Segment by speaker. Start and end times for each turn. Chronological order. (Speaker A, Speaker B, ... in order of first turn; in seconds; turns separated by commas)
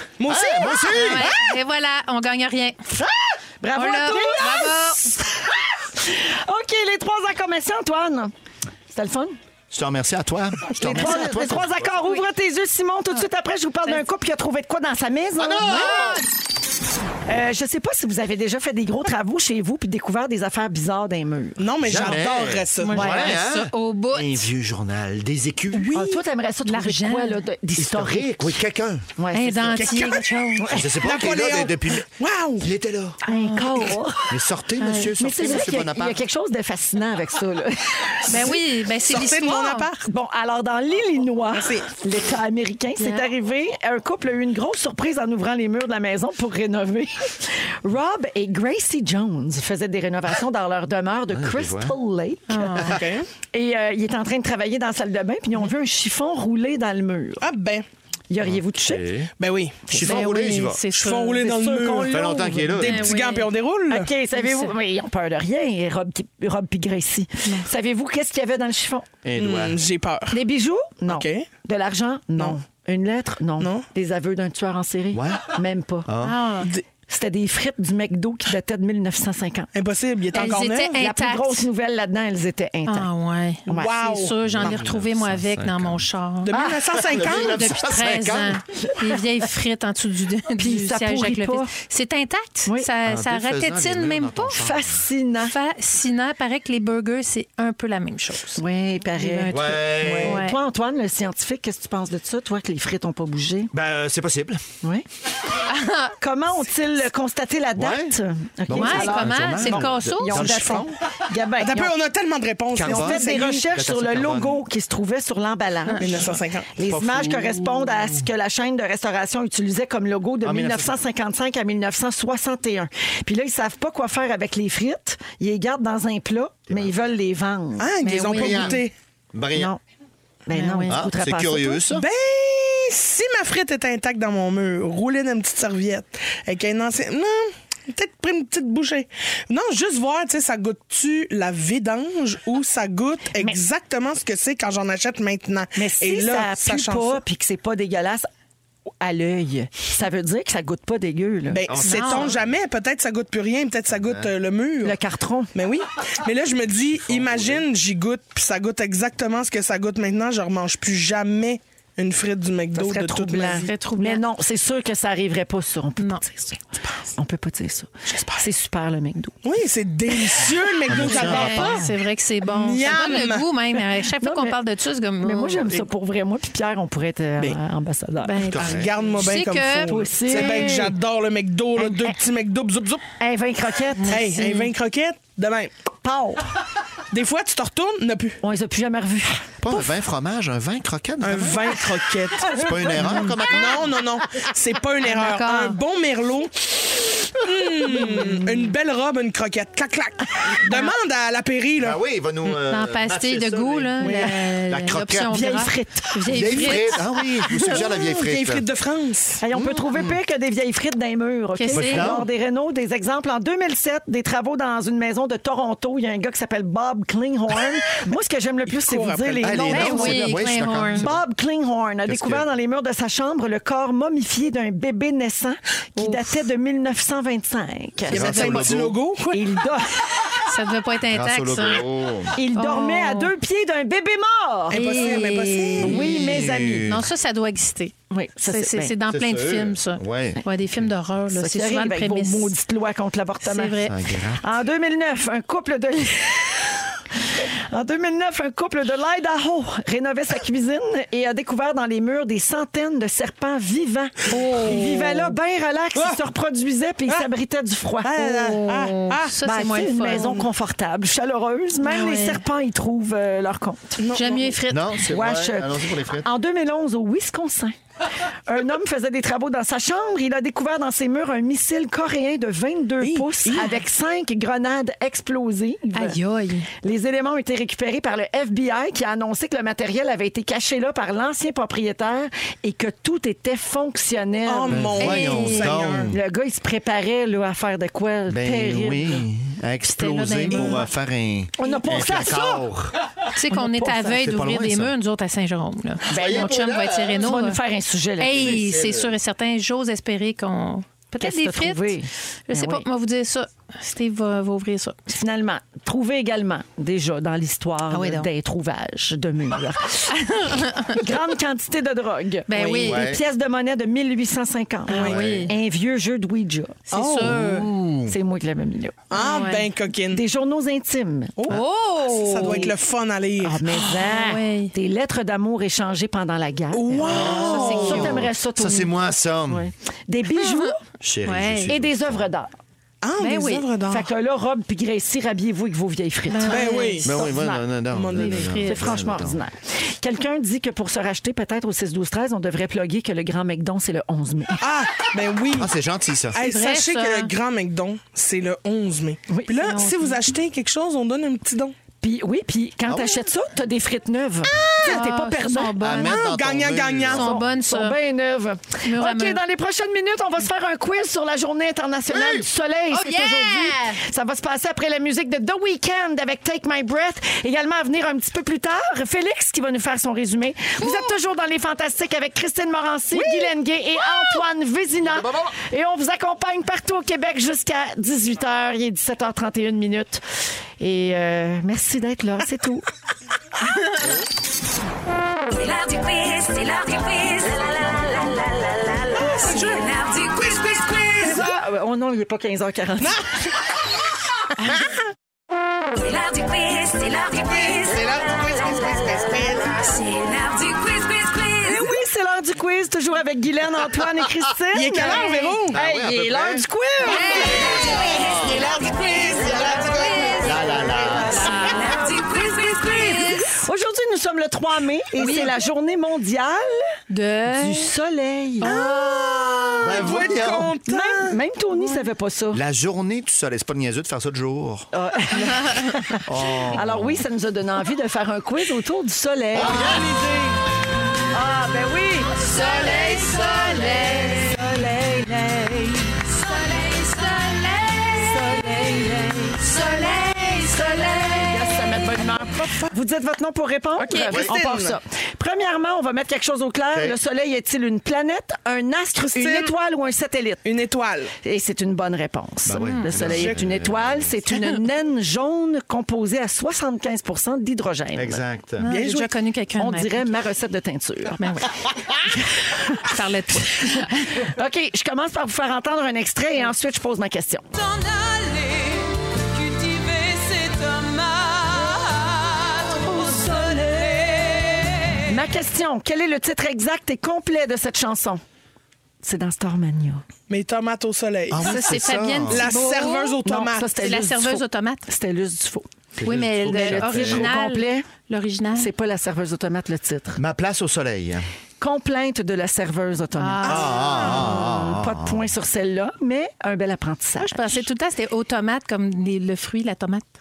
Speaker A: 0.2-1.2, Speaker B: 0.2-1.4, Speaker C: 0.9-2.8, Speaker D: 2.9-8.3, Speaker C: 3.7-5.1, Speaker D: 8.9-9.4, Speaker B: 9.7-11.9, Speaker D: 10.7-15.9, Speaker C: 10.9-11.5, Speaker B: 15.4-16.2, Speaker C: 15.6-16.2, Speaker D: 17.2-22.2, Speaker A: 21.6-23.2, Speaker B: 21.8-26.0, Speaker C: 22.8-24.4, Speaker D: 25.9-28.4, Speaker C: 26.6-27.4, Speaker B: 27.8-29.1, Speaker D: 29.2-30.9, Speaker C: 29.3-30.7, Speaker A: 29.8-30.2, Speaker B: 30.7-32.1, Speaker A: 31.0-32.7, Speaker B: 32.6-33.2, Speaker D: 33.2-34.3, Speaker C: 33.3-33.8, Speaker B: 34.3-36.2, Speaker C: 34.8-35.1, Speaker D: 35.2-38.6, Speaker C: 38.3-39.9, Speaker A: 38.3-40.0, Speaker D: 40.1-53.0, Speaker A: 41.5-41.9, Speaker C: 43.0-43.3, Speaker B: 51.3-52.0, Speaker C: 52.5-53.0, Speaker A: 52.9-53.3, Speaker D: 53.5-57.4, Speaker A: 57.4-57.8, Speaker D: 58.3-59.0, Speaker B: 58.4-59.3, Speaker A: 59.4-59.8, Speaker D: 59.9-60.2, Speaker B: 59.9-60.8, Speaker C: 59.9-61.4, Speaker A: 60.9-64.1, Speaker D: 61.4-62.8, Speaker B: 62.1-63.1, Speaker C: 62.8-63.5, Speaker D: 63.9-69.1, Speaker C: 64.3-64.7, Speaker B: 69.2-69.8, Speaker A: 69.4-70.4, Speaker D: 70.3-76.1, Speaker A: 71.1-71.5, Speaker A: 73.6-73.8, Speaker B: 75.1-76.4, Speaker C: 76.2-76.7, Speaker D: 77.1-79.7, Speaker A: 79.7-81.0, Speaker C: 80.3-81.7, Speaker D: 81.0-83.1, Speaker C: 82.9-86.6, Speaker D: 83.7-83.9, Speaker A: 83.7-84.8, Speaker B: 84.4-86.0, Speaker A: 86.5-87.6, Speaker D: 86.5-86.8, Speaker B: 86.9-88.6, Speaker C: 87.2-94.6, Speaker D: 90.5-91.7, Speaker D: 92.7-92.9, Speaker B: 93.0-95.0, Speaker D: 94.5-95.5, Speaker C: 95.4-98.6, Speaker D: 98.6-103.7, Speaker C: 99.2-100.6, Speaker B: 99.5-100.4, Speaker B: 103.7-104.6, Speaker C: 105.7-106.1, Speaker D: 106.2-111.9, Speaker B: 107.8-110.9, Speaker C: 108.7-110.5, Speaker A: 110.3-110.9, Speaker A: 111.6-113.7, Speaker B: 112.7-114.6, Speaker D: 112.8-127.9, Speaker A: 116.0-116.7, Speaker B: 116.8-118.3, Speaker B: 120.4-121.0, Speaker B: 126.7-126.9, Speaker A: 127.8-128.9, Speaker C: 128.0-128.8, Speaker B: 128.3-128.8, Speaker B: 129.3-129.7, Speaker D: 129.5-129.8, Speaker D: 130.5-131.8, Speaker C: 130.5-131.0, Speaker B: 130.9-132.1, Speaker A: 131.9-147.2, Speaker D: 145.8-148.3, Speaker D: 149.0-151.6, Speaker A: 151.5-155.0, Speaker B: 151.7-152.5, Speaker C: 151.8-152.3, Speaker B: 154.0-154.3, Speaker D: 154.8-155.5, Speaker A: 155.5-163.7, Speaker B: 156.8-157.7, Speaker D: 162.7-169.3, Speaker C: 163.6-164.2, Speaker C: 166.0-166.2, Speaker A: 168.1-168.5, Speaker A: 169.4-171.9, Speaker D: 170.2-171.8, Speaker B: 170.9-171.9, Speaker C: 171.1-175.8, Speaker A: 172.4-173.5, Speaker D: 174.1-174.6, Speaker D: 175.2-178.4, Speaker C: 178.2-180.7, Speaker B: 178.5-178.9, Speaker A: 178.5-183.1, Speaker D: 179.9-180.9, Speaker D: 181.8-182.1, Speaker D: 183.2-184.4, Speaker C: 184.0-184.7, Speaker A: 184.1-185.7, Speaker D: 186.0-186.4, Speaker A: 187.1-188.4, Speaker D: 188.4-189.9, Speaker B: 189.6-194.1, Speaker A: 191.2-202.5, Speaker D: 192.4-193.2, Speaker C: 195.0-195.8, Speaker B: 201.8-205.5, Speaker C: 202.7-207.6, Speaker A: 204.0-204.3, Speaker D: 205.3-206.7, Speaker B: 206.3-208.7, Speaker A: 207.6-209.4, Speaker D: 209.4-228.7, Speaker B: 209.5-210.2, Speaker C: 211.5-212.2, Speaker B: 211.7-212.3, Speaker A: 218.7-220.1, Speaker B: 219.4-221.2, Speaker C: 219.7-221.1, Speaker B: 222.0-222.5, Speaker C: 226.0-226.2, Speaker A: 228.1-229.6, Speaker B: 228.1-229.0, Speaker D: 229.3-230.3, Speaker C: 230.5-231.8, Speaker B: 231.1-232.4, Speaker D: 232.3-235.2, Speaker C: 232.5-233.3, Speaker A: 234.7-236.1, Speaker C: 234.7-242.5, Speaker D: 235.8-236.9, Speaker B: 235.8-237.1, Speaker D: 238.1-238.9, Speaker B: 239.1-240.9, Speaker D: 241.3-243.8, Speaker C: 243.4-244.0, Speaker B: 243.8-244.5, Speaker D: 244.4-258.3, Speaker C: 254.3-254.9, Speaker A: 254.7-255.3, Speaker A: 255.9-256.2, Speaker A: 258.0-259.4, Speaker C: 258.2-260.4, Speaker D: 259.4-264.0, Speaker A: 260.1-260.4, Speaker C: 261.8-262.4, Speaker A: 264.0-264.5, Speaker C: 264.1-264.9, Speaker B: 264.7-266.3, Speaker D: 265.1-267.8, Speaker D: 268.4-276.2, Speaker A: 273.0-273.7, Speaker C: 275.9-276.7, Speaker D: 276.8-285.2, Speaker A: 284.4-286.1, Speaker B: 284.7-286.2, Speaker C: 285.0-285.7, Speaker D: 286.1-289.2, Speaker B: 288.3-292.9, Speaker C: 289.9-290.9, Speaker D: 291.6-292.6, Speaker C: 293.3-297.6, Speaker D: 293.5-294.2, Speaker B: 294.0-294.9, Speaker D: 296.1-296.6, Speaker B: 296.1-297.2, Speaker D: 297.1-298.6, Speaker C: 298.2-302.0, Speaker B: 298.3-299.1, Speaker D: 301.2-302.9, Speaker C: 302.5-305.0, Speaker D: 305.1-310.2, Speaker C: 307.9-308.3, Speaker C: 310.2-310.9, Speaker D: 310.8-316.8, Speaker C: 312.5-313.1, Speaker A: 312.5-313.0, Speaker B: 312.8-313.2, Speaker C: 314.9-315.5, Speaker B: 315.0-315.5, Speaker C: 316.9-317.7, Speaker A: 316.9-317.3, Speaker B: 317.2-318.2, Speaker D: 318.1-319.0, Speaker A: 319.1-320.2, Speaker C: 319.1-319.7, Speaker D: 320.1-321.6, Speaker A: 321.4-323.7, Speaker C: 321.5-322.7, Speaker D: 323.4-328.9, Speaker C: 323.7-324.7, Speaker A: 326.7-328.2, Speaker B: 327.1-329.7, Speaker C: 327.5-328.0, Speaker D: 329.5-330.8, Speaker C: 330.3-330.7, Speaker B: 331.0-332.3, Speaker C: 331.3-331.7, Speaker D: 331.7-332.5, Speaker A: 333.0-334.1, Speaker C: 333.2-333.6, Speaker D: 333.9-336.9, Speaker C: 336.3-338.9, Speaker A: 336.4-337.1, Speaker B: 337.0-339.4, Speaker A: 337.9-338.5, Speaker D: 338.6-344.6, Speaker A: 344.6-345.7, Speaker B: 345.5-346.4, Speaker A: 346.3-351.7, Speaker C: 346.4-347.3, Speaker C: 349.6-350.2, Speaker D: 352.0-355.9, Speaker B: 352.9-353.3, Speaker C: 354.8-356.2, Speaker B: 355.8-357.4, Speaker A: 356.0-357.2, Speaker C: 357.1-358.0, Speaker D: 357.2-380.2, Speaker C: 358.8-359.4, Speaker B: 362.1-362.5, Speaker C: 362.9-364.0, Speaker C: 370.8-371.1, Speaker A: 373.1-373.5, Speaker B: 375.0-375.5, Speaker D: 380.8-382.9, Speaker E: 385.5-391.2, Speaker A: 389.1-391.6, Speaker D: 391.2-393.2, Speaker E: 396.0-401.9, Speaker A: 397.5-399.8, Speaker D: 401.6-408.1, Speaker A: 404.7-405.8, Speaker B: 405.7-406.7, Speaker C: 407.1-408.3, Speaker E: 407.4-408.8, Speaker A: 407.9-410.2, Speaker B: 408.2-408.5, Speaker E: 409.3-410.1, Speaker D: 409.4-416.8, Speaker C: 409.4-410.6, Speaker B: 410.4-411.5, Speaker E: 411.1-413.5, Speaker C: 411.3-411.8, Speaker C: 415.2-415.6, Speaker C: 417.1-417.9, Speaker D: 417.5-422.6, Speaker C: 418.6-419.3, Speaker A: 418.6-421.4, Speaker B: 419.8-420.7, Speaker C: 421.8-422.0, Speaker B: 422.5-424.9, Speaker D: 424.9-430.6, Speaker C: 425.6-425.9, Speaker B: 426.2-427.2, Speaker B: 429.5-430.1, Speaker A: 429.6-430.0, Speaker D: 431.3-436.2, Speaker C: 432.3-434.5, Speaker C: 436.4-438.4, Speaker D: 438.1-439.6, Speaker C: 439.6-442.1, Speaker D: 440.8-450.6, Speaker C: 444.0-444.4, Speaker A: 444.1-445.0, Speaker B: 446.9-447.2, Speaker A: 449.2-449.7, Speaker A: 450.6-451.3, Speaker D: 451.4-458.4, Speaker B: 452.6-454.4, Speaker C: 452.8-453.2, Speaker A: 453.2-453.6, Speaker B: 458.1-458.9, Speaker C: 458.8-460.3, Speaker A: 458.9-459.3, Speaker D: 459.8-461.6, Speaker C: 461.3-464.5, Speaker D: 462.3-463.2, Speaker D: 463.8-467.7, Speaker C: 467.9-468.6, Speaker C: 470.4-471.4, Speaker D: 472.9-478.4, Speaker D: 479.2-480.2, Speaker A: 480.5-481.8, Speaker B: 481.5-482.7, Speaker C: 481.6-483.4, Speaker A: 482.5-483.9, Speaker D: 483.4-485.9, Speaker C: 483.9-485.1, Speaker B: 486.2-487.5, Speaker C: 486.2-488.9, Speaker D: 486.7-488.1, Speaker D: 488.8-490.4, Speaker B: 490.4-491.4, Speaker D: 491.8-497.8, Speaker C: 493.4-494.4, Speaker A: 493.6-494.5, Speaker B: 493.6-495.5, Speaker C: 497.4-500.3